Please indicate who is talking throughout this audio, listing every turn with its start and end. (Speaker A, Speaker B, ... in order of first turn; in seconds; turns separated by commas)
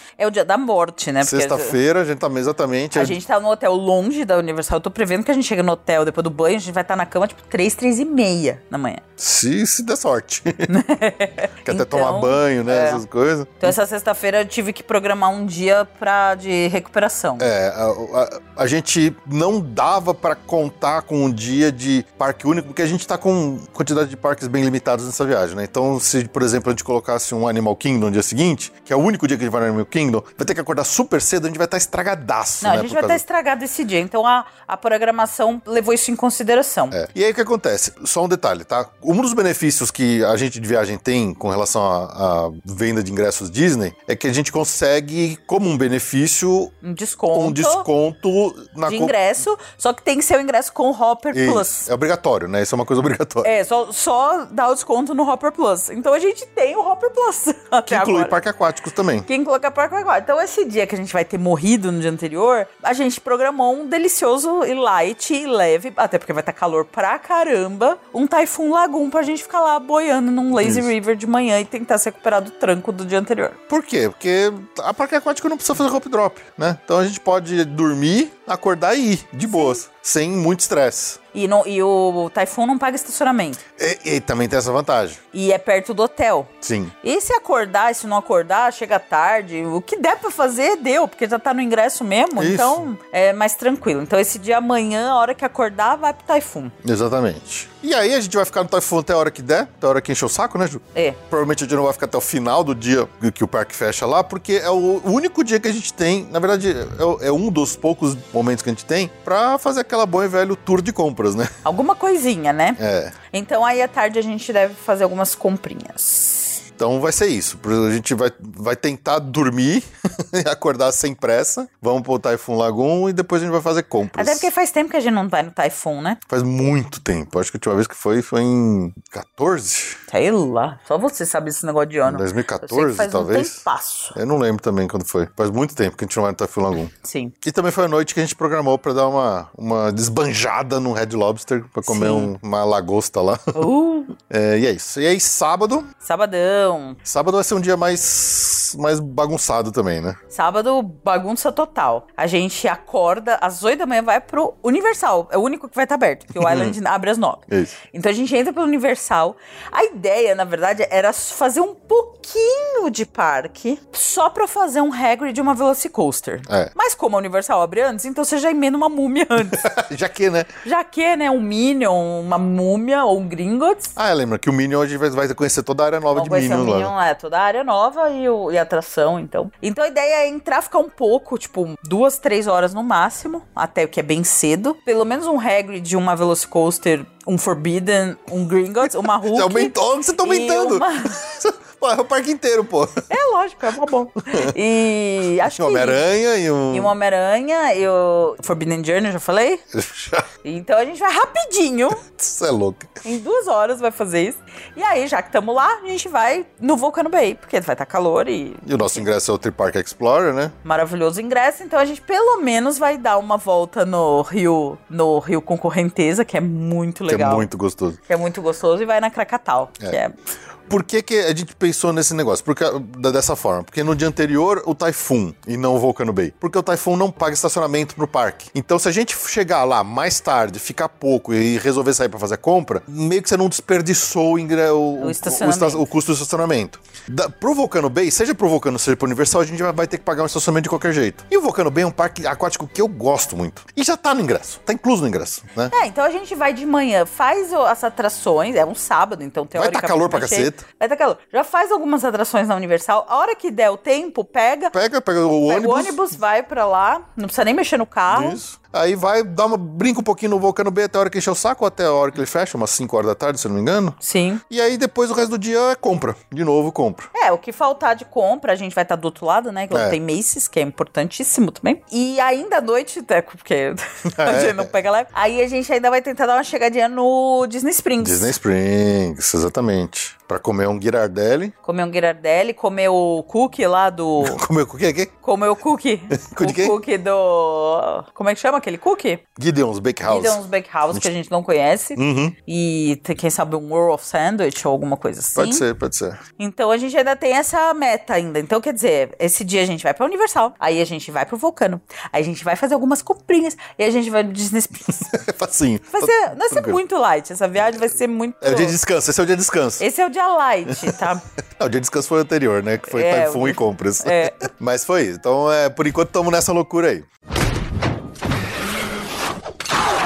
Speaker A: 0.2-1.8, Speaker B: 1.2-3.2, Speaker A: 2.9-9.0, Speaker B: 9.2-10.7, Speaker A: 10.7-13.0, Speaker B: 11.7-13.8, Speaker A: 13.6-17.5, Speaker B: 17.4-33.2, Speaker A: 32.6-37.0, Speaker B: 36.9-46.7, Speaker A: 46.8-47.9, Speaker B: 47.3-49.1, Speaker A: 48.9-51.9, Speaker B: 51.3-53.5, Speaker A: 53.4-58.4, Speaker B: 57.9-59.3, Speaker A: 59.3-73.6, Speaker B: 70.6-70.9, Speaker B: 73.7-81.2, Speaker A: 79.5-79.8, Speaker A: 81.3-83.6, Speaker B: 83.8-85.2, Speaker A: 85.3-96.7, Speaker B: 86.6-86.9, Speaker B: 92.4-92.8, Speaker B: 96.8-111.5, Speaker A: 101.0-101.2, Speaker A: 111.7-112.8, Speaker B: 112.8-113.2, Speaker A: 113.3-116.6, Speaker B: 116.8-124.5, Speaker A: 124.2-126.2, Speaker B: 126.3-130.0, Speaker A: 130.1-134.2, Speaker B: 132.1-133.6, Speaker B: 134.2-136.9, Speaker A: 136.9-137.3, Speaker B: 137.4-143.6, Speaker A: 141.9-142.3, Speaker A: 143.6-144.1, Speaker B: 144.2-145.9, Speaker A: 146.0-147.0, Speaker B: 147.1-150.2, Speaker A: 150.3-169.7, Speaker B: 156.4-156.8, Speaker B: 157.5-157.8, Speaker B: 166.5-166.7, Speaker B: 169.5-170.6, Speaker A: 170.6-173.9, Speaker B: 174.0-176.9, Speaker A: 176.1-191.2, Speaker B: 189.2-193.1, Speaker A: 193.1-196.0, Speaker B: 195.5-196.9, Speaker A: 196.7-199.6, Speaker B: 199.7-200.3, Speaker A: 200.4-202.0, Speaker B: 202.0-203.0, Speaker A: 203.0-209.1, Speaker B: 208.7-210.6, Speaker A: 210.7-217.5, Speaker B: 217.1-218.0, Speaker A: 218.1-220.1, Speaker B: 220.7-245.8, Speaker A: 235.0-235.9, Speaker A: 245.7-254.8, Speaker B: 249.6-250.6, Speaker B: 254.7-256.0, Speaker A: 255.5-258.4, Speaker B: 258.1-264.0, Speaker A: 264.0-264.4, Speaker B: 264.5-267.1, Speaker A: 267.1-278.3, Speaker B: 269.7-270.0, Speaker B: 274.1-274.7, Speaker B: 278.0-281.5, Speaker A: 281.6-284.4, Speaker B: 284.2-285.1, Speaker A: 285.2-289.2, Speaker B: 286.1-286.8, Speaker B: 289.4-290.4, Speaker A: 290.1-295.6, Speaker B: 292.0-292.4, Speaker B: 295.4-296.2, Speaker A: 296.4-305.1, Speaker B: 305.0-306.8, Speaker A: 305.9-308.8, Speaker B: 308.4-309.9, Speaker A: 309.8-311.2, Speaker B: 310.7-311.0, Speaker B: 311.6-317.1, Speaker A: 312.9-314.4